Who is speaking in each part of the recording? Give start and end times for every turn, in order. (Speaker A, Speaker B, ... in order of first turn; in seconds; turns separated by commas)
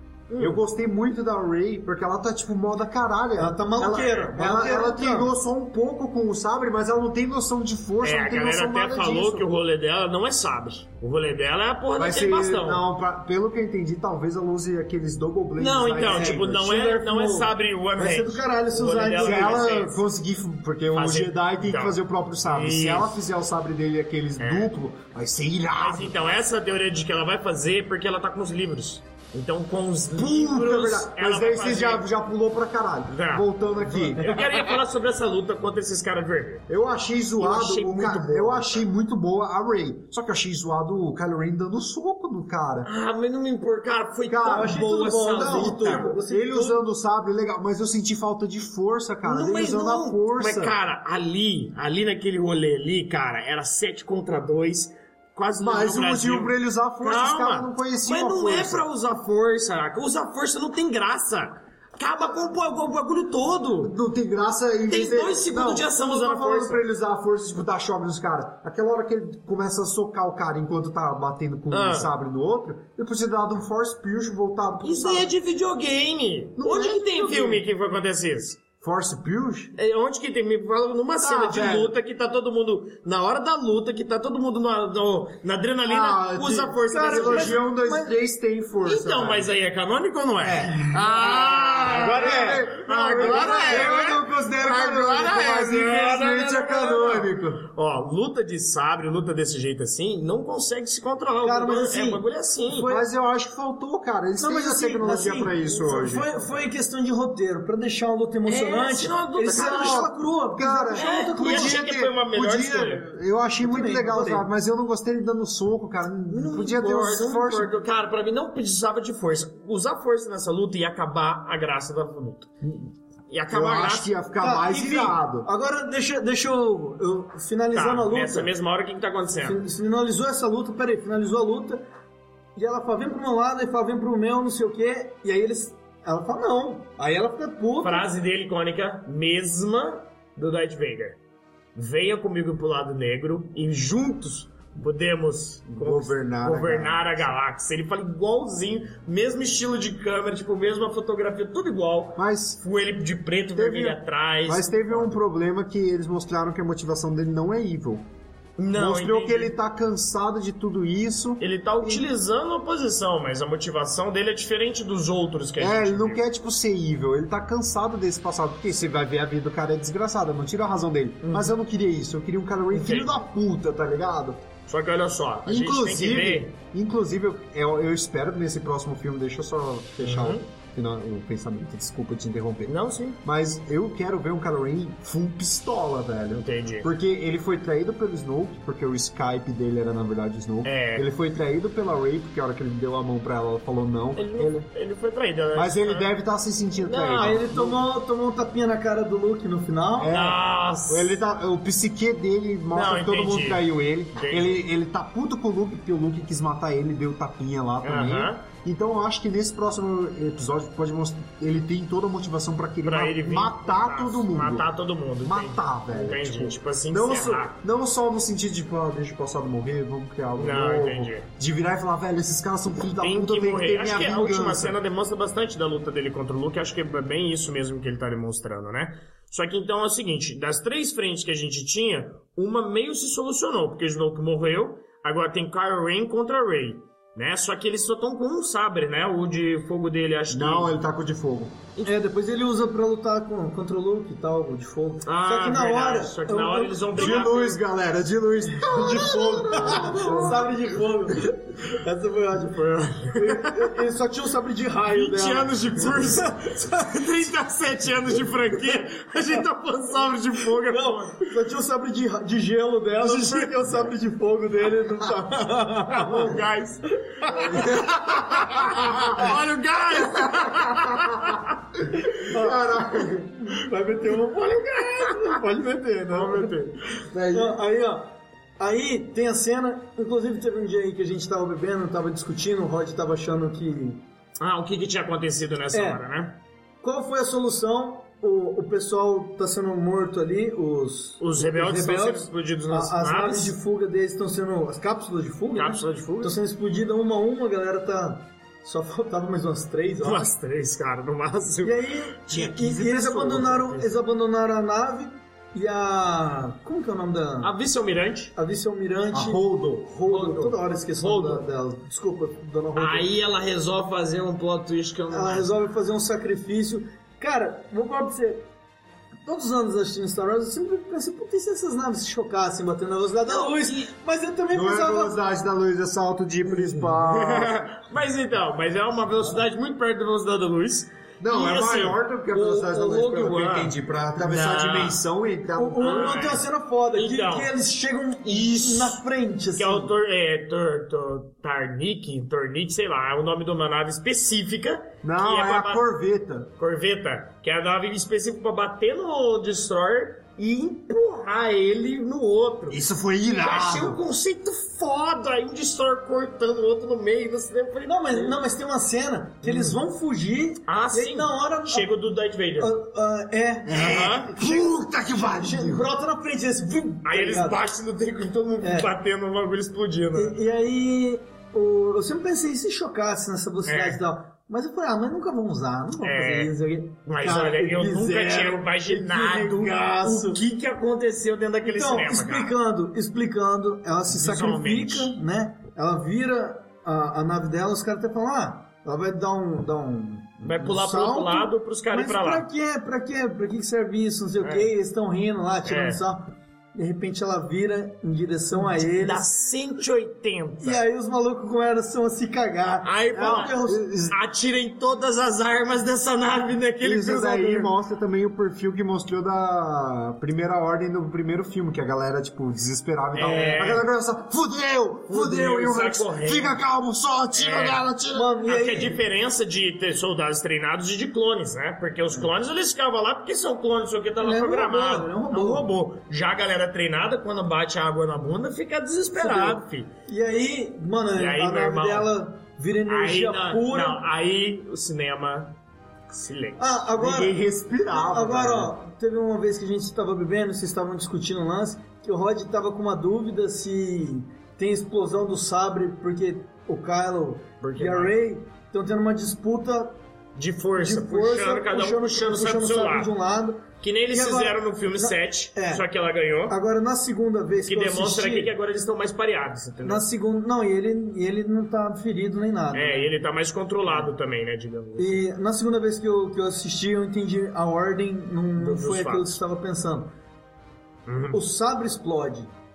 Speaker A: 0.3-0.6, Speaker B: 0.4-9.4, Speaker C: 3.4-5.3, Speaker A: 8.0-12.8, Speaker B: 11.9-16.6, Speaker A: 15.6-20.0, Speaker C: 16.0-19.6, Speaker B: 19.2-26.4, Speaker A: 20.9-23.2, Speaker A: 24.4-24.7, Speaker A: 25.8-32.0, Speaker B: 30.1-34.5, Speaker A: 33.1-36.6, Speaker B: 36.7-42.9, Speaker A: 37.4-38.9, Speaker A: 42.8-46.1, Speaker B: 44.3-50.8, Speaker C: 44.4-46.8, Speaker A: 49.2-63.9, Speaker B: 55.6-58.9, Speaker B: 63.8-75.3, Speaker A: 64.9-66.8, Speaker A: 71.7-72.1, Speaker A: 74.8-78.6, Speaker B: 76.6-77.6, Speaker B: 78.8-79.7, Speaker A: 79.8-87.6, Speaker B: 81.2-81.9, Speaker B: 85.8-89.5, Speaker C: 86.9-88.1, Speaker A: 88.8-102.9, Speaker B: 90.4-97.6, Speaker C: 93.2-93.9, Speaker C: 101.4-103.1, Speaker B: 102.9-106.3, Speaker C: 104.4-111.8, Speaker A: 105.6-106.4, Speaker A: 108.4-110.1, Speaker B: 109.5-117.8, Speaker A: 110.9-113.1, Speaker C: 113.6-114.5, Speaker A: 116.3-122.5, Speaker A: 123.3-124.1, Speaker B: 123.5-125.5, Speaker C: 124.4-128.5, Speaker A: 127.7-129.6, Speaker C: 129.4-131.8, Speaker C: 132.6-138.1, Speaker A: 137.8-141.2, Speaker A: 141.7-155.2, Speaker B: 145.8-147.3, Speaker B: 152.2-152.6, Speaker B: 153.5-158.1, Speaker A: 158.6-159.5, Speaker B: 158.7-162.1, Speaker A: 161.4-166.2, Speaker B: 165.6-174.4, Speaker A: 171.2-171.5, Speaker A: 172.7-173.2, Speaker A: 174.7-176.5, Speaker B: 175.4-194.7, Speaker A: 180.0-180.4, Speaker A: 182.7-183.2, Speaker A: 186.3-186.9, Speaker A: 190.6-191.1, Speaker A: 194.2-196.1, Speaker B: 195.5-197.8, Speaker A: 196.8-197.5, Speaker C: 197.1-200.2, Speaker B: 200.0-214.7, Speaker A: 200.1-201.1, Speaker A: 202.7-203.6, Speaker A: 204.1-204.6, Speaker A: 207.8-208.4, Speaker A: 212.8-217.6, Speaker B: 215.2-224.8, Speaker A: 220.3-221.3, Speaker A: 223.0-240.8, Speaker B: 240.3-241.6, Speaker C: 241.8-247.3, Speaker A: 245.1-247.6, Speaker B: 246.9-250.8, Speaker C: 248.6-256.7, Speaker A: 249.6-250.4, Speaker A: 252.4-253.8, Speaker A: 254.9-261.2, Speaker C: 260.6-269.3, Speaker A: 263.0-263.8, Speaker A: 265.9-271.6, Speaker B: 267.5-269.4, Speaker B: 269.9-271.4, Speaker C: 271.9-276.5, Speaker B: 272.2-273.3, Speaker A: 274.4-275.4, Speaker A: 276.1-277.1, Speaker B: 277.1-277.5, Speaker C: 277.3-284.0, Speaker A: 284.4-286.4, Speaker C: 285.7-286.0, Speaker C: 286.8-300.3, Speaker A: 291.2-293.5, Speaker A: 295.5-296.3, Speaker A: 300.0-303.9, Speaker C: 301.6-307.5, Speaker B: 302.3-302.7, Speaker A: 307.4-308.3, Speaker C: 308.3-313.1, Speaker B: 309.1-309.9, Speaker A: 310.1-311.4, Speaker A: 312.8-315.5, Speaker C: 315.1-318.5, Speaker C: 319.2-325.2, Speaker A: 323.2-323.9, Speaker B: 324.5-327.6, Speaker A: 326.4-335.0, Speaker B: 331.2-336.3, Speaker C: 335.6-339.9, Speaker A: 335.8-337.5, Speaker A: 338.2-339.0, Speaker A: 339.6-345.9, Speaker B: 345.0-346.5, Speaker A: 346.6-358.4, Speaker B: 352.7-354.0, Speaker C: 357.8-361.9, Speaker A: 359.4-359.8, Speaker A: 360.7-362.7, Speaker C: 362.6-367.6, Speaker B: 363.6-365.9, Speaker A: 363.7-364.3, Speaker A: 367.0-370.4, Speaker C: 368.6-368.9, Speaker C: 370.1-380.4, Speaker A: 373.6-374.0, Speaker A: 376.0-376.5, Speaker A: 377.1-382.5, Speaker C: 381.6-399.2, Speaker A: 384.1-385.1, Speaker A: 390.4-392.5, Speaker A: 394.4-394.7, Speaker A: 395.6-396.0, Speaker A: 398.5-400.8, Speaker C: 400.6-403.8, Speaker A: 402.8-407.7, Speaker B: 403.1-404.1, Speaker B: 406.8-418.3, Speaker A: 413.1-413.9, Speaker A: 415.1-416.6, Speaker A: 417.3-417.8, Speaker C: 418.1-419.0, Speaker A: 418.4-429.9, Speaker C: 424.2-425.7, Speaker C: 429.1-434.0, Speaker A: 431.1-432.1, Speaker A: 432.9-435.6, Speaker A: 436.1-436.9, Speaker C: 436.6-450.0, Speaker B: 437.0-438.7, Speaker A: 447.6-448.2, Speaker A: 450.3-453.1, Speaker C: 450.7-455.8, Speaker A: 453.8-456.6, Speaker C: 456.5-458.5, Speaker A: 457.6-460.0, Speaker C: 459.8-463.1, Speaker A: 462.7-465.2, Speaker C: 463.8-464.1, Speaker C: 465.0-470.1, Speaker A: 468.6-469.4, Speaker A: 471.1-471.4, Speaker C: 471.3-472.5